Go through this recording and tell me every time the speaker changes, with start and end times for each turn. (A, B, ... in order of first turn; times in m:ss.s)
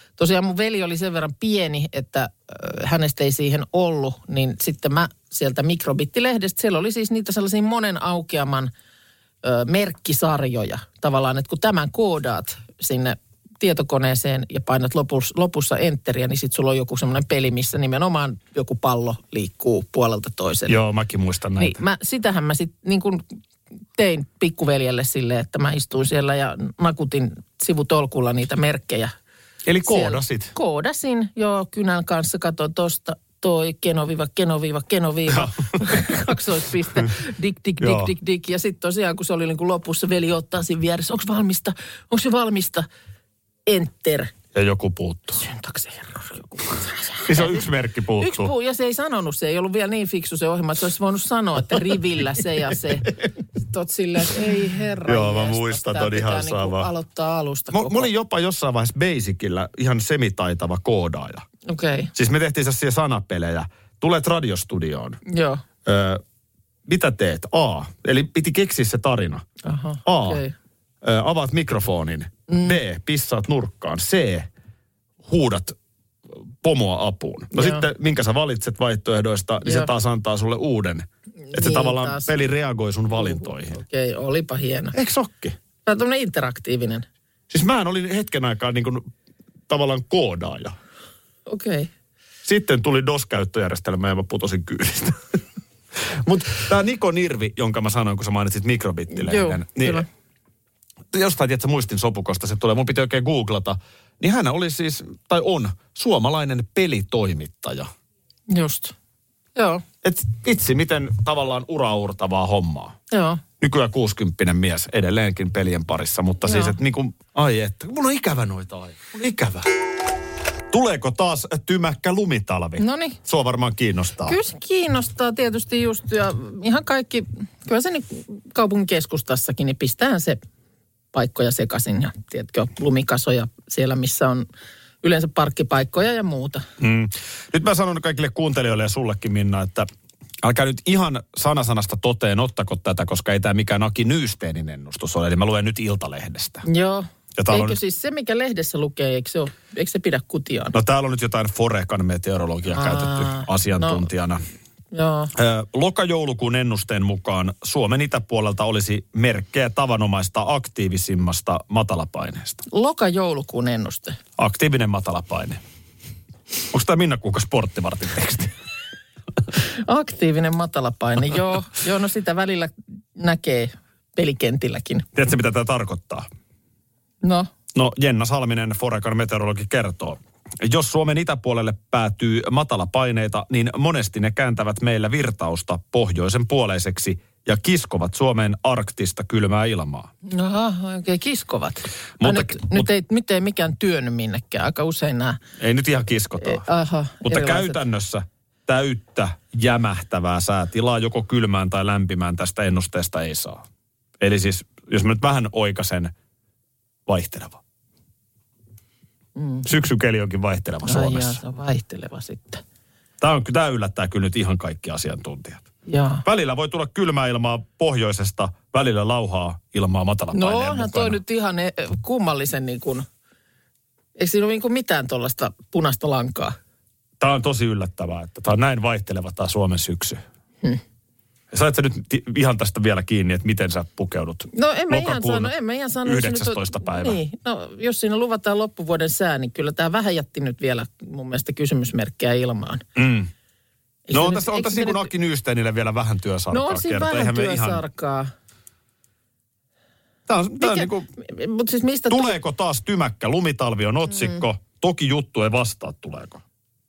0:00.2-0:08.7 A
0:09.4-0:20.8 A
0:20.7-0:21.8 B
0:21.6-0:23.2 A
0:24.0-0:29.1 A
0:29.6-0:30.5 B
0:29.8-0:42.9 A
0:35.3-0:36.2 B
0:37.8-0:38.1 B
0:43.7-0:44.3 A
0:44.5-0:45.4 B
0:45.4-0:47.6 A
0:47.3-0:48.5 B
0:48.2-0:53.1 A
0:53.7-0:58.1 A
0:55.0-0:56.9 B
0:57.7-1:01.4 B
1:01.6-1:02.1 A
1:02.1-1:05.2 B
1:05.3-1:05.6 A
1:05.8-1:06.2 B
1:06.9-1:09.4 B
1:09.6-1:10.5 A
1:10.0-1:10.4 B
1:11.0-1:14.5 B
1:12.5-1:12.8 A
1:15.2-1:15.7 B
1:16.6-1:23.8 B
1:17.6-1:17.8 A
1:19.6-1:19.9 A
1:21.5-1:22.4 A
1:23.2-1:24.9 A
1:24.9-1:25.6 B
1:25.8-1:27.0 A
1:27.5-1:29.0 B
1:29.7-1:30.7 B
1:31.5-1:31.9 A
1:32.4-1:35.4 B
1:36.2-1:40.0 B
1:39.1-1:40.0 A
1:41.1-1:47.9 B
1:48.5-1:48.9 A
1:49.6-1:49.8 A
1:50.0-1:53.0 B
1:53.1-1:53.4 A
1:53.6-1:59.7 B
1:56.4-1:56.8 A
2:00.7-2:04.4 B
2:02.8-2:03.2 A
2:04.3-2:10.4 A
2:11.1-2:14.5 A
2:15.0-2:16.6 A
2:16.8-2:19.9 B
2:20.4-2:26.6 B
2:26.6-2:30.7 A
2:27.4-2:27.8 B
2:30.7-2:34.4 B
2:32.7-2:34.0 A
2:34.9-2:35.3 A
2:35.4-2:42.6 B
2:42.7-2:44.2 A
2:44.4-2:45.6 B
2:46.7-2:48.5 B
2:49.8-2:55.1 A
2:55.1-2:56.2 B
2:57.2-2:57.5 A
2:57.7-3:10.1 B
3:10.2-3:15.4 A
3:12.2-3:12.9 B
3:15.6-3:16.6 B
3:16.4-3:17.8 A
3:17.2-3:23.6 B
3:24.2-3:26.1 B
3:27.1-3:27.6 B
3:29.4-3:29.6 A
3:29.6-3:31.4 B
3:30.8-3:32.6 A
3:33.2-3:35.7 B
3:35.9-3:36.2 A
3:36.2-3:41.2 B
3:40.3-3:43.0 A
3:44.2-3:46.6 A
3:47.2-3:50.2 B
3:51.5-3:55.5 B
3:54.5-4:02.8 A
3:56.0-3:57.2 B
4:03.0-4:03.3 B
4:04.1-4:05.1 A
4:04.1-4:07.8 B
4:06.5-4:08.3 A
4:10.3-4:11.1 B
4:10.6-4:12.4 A
4:12.1-4:16.4 B